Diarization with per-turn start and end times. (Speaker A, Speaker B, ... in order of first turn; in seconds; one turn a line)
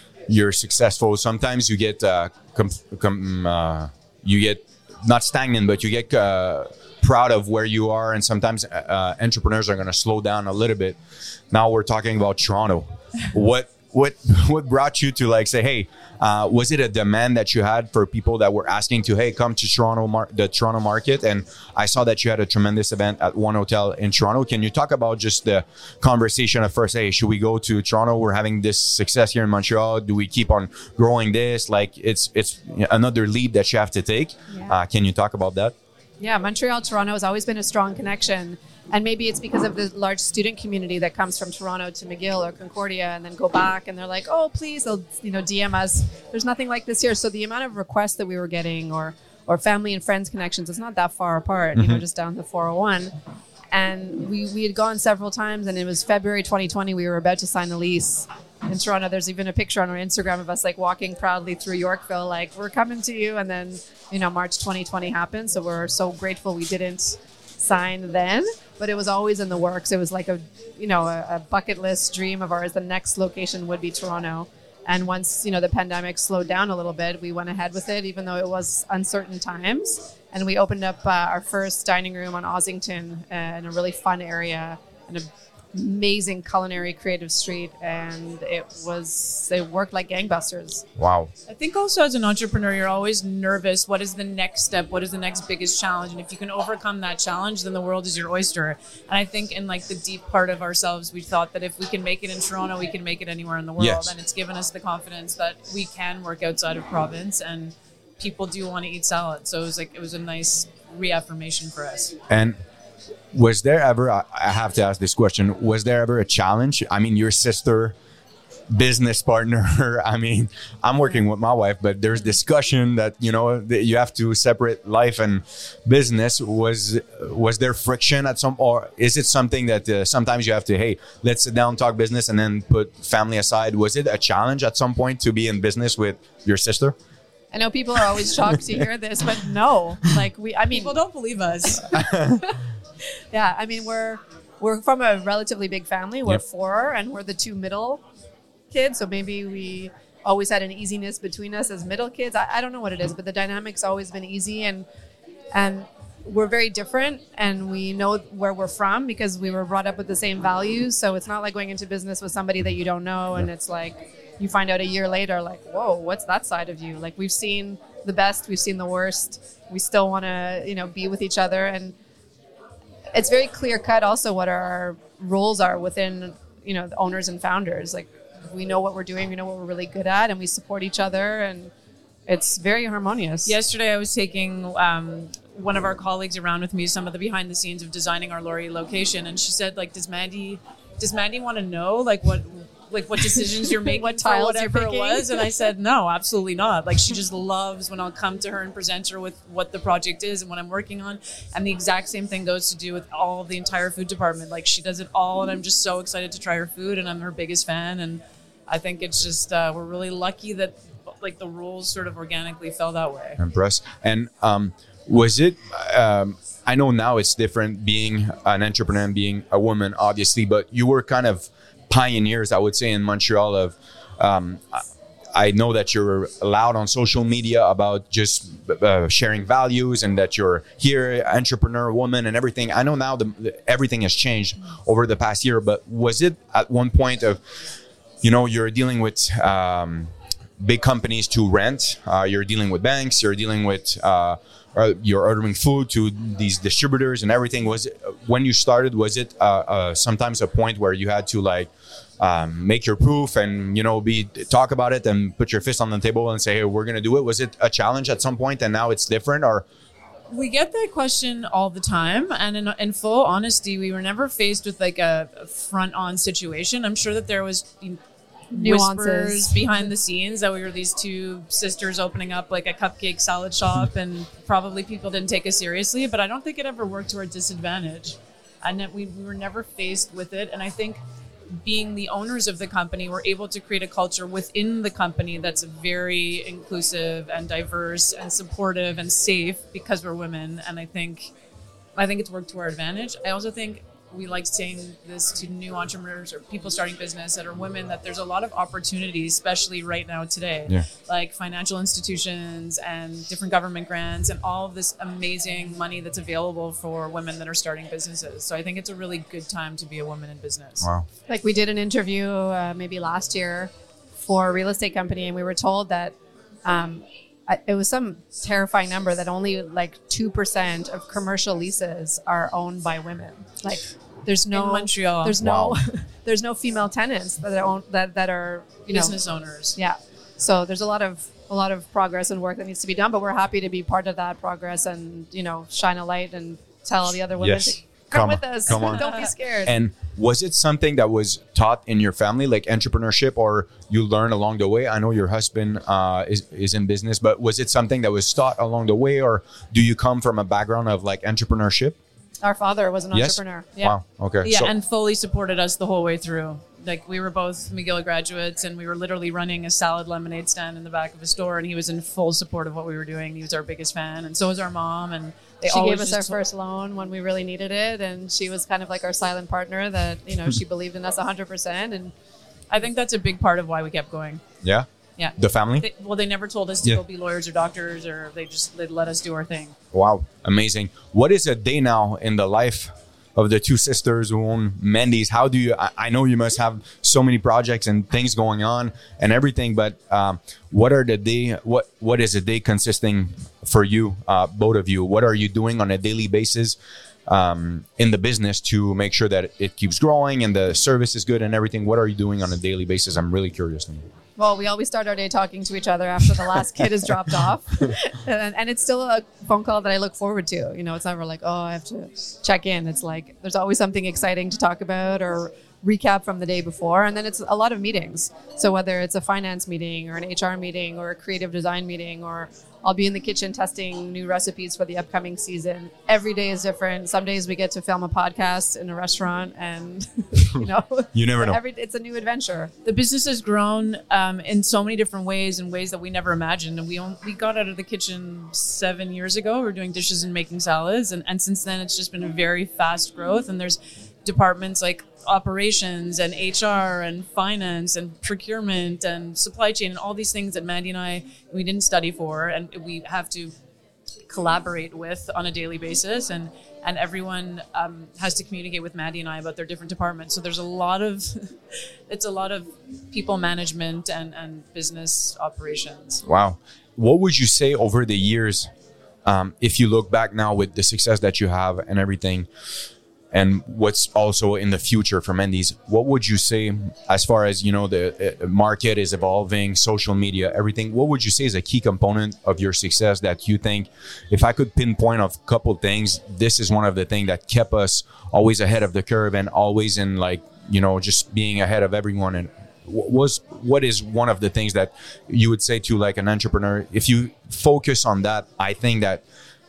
Speaker A: 0.3-11.0
Speaker A: 11.5-35.7
Speaker B: 36.2-53.1
Speaker B: 53.7-90.8
Speaker A: 91.0-91.3
Speaker C: 91.5-112.2
Speaker A: 103.8-104.1
Speaker A: 112.3-112.6
Speaker A: 113.3-117.9
Speaker A: 118.7-136.9
Speaker B: 137.5-140.9
Speaker C: 140.7-141.8
Speaker B: 141.7-142.6
Speaker A: 141.9-142.5
Speaker B: 143.3-148.0
Speaker B: 148.7-154.9
Speaker B: 155.5-171.9
Speaker B: 173.1-181.7
Speaker B: 182.3-183.5
Speaker C: 183.4-213.4
Speaker B: 193.7-195.7
Speaker A: 213.4-237.4
Speaker A: 238.2-259.6
Speaker C: 260.3-268.0
Speaker B: 268.5-269.6
Speaker C: 268.5-281.0
Speaker C: 281.6-291.3
Speaker C: 291.9-310.9
Speaker B: 311.3-329.1
Speaker C: 324.5-325.4
Speaker A: 325.4-325.8
Speaker C: 328.9-329.8
Speaker B: 329.8-339.8
Speaker A: 337.4-339.1
Speaker C: 338.7-339.3
Speaker A: 339.6-352.0
Speaker B: 352.4-353.9
Speaker A: 353.1-354.7
Speaker C: 354.4-366.4
Speaker B: 365.6-372.1
Speaker C: 372.7-374.4
Speaker A: 374.6-375.8
Speaker C: 375.2-379.8
Speaker A: 379.9-404.1
Speaker B: 404.4-432.7
Speaker A: 431.1-431.6
Speaker C: 432.8-453.5
Speaker C: 454.3-466.2
Speaker A: 466.2-468.7
Speaker A: 469.2-472.5
Speaker A: 473.3-499.2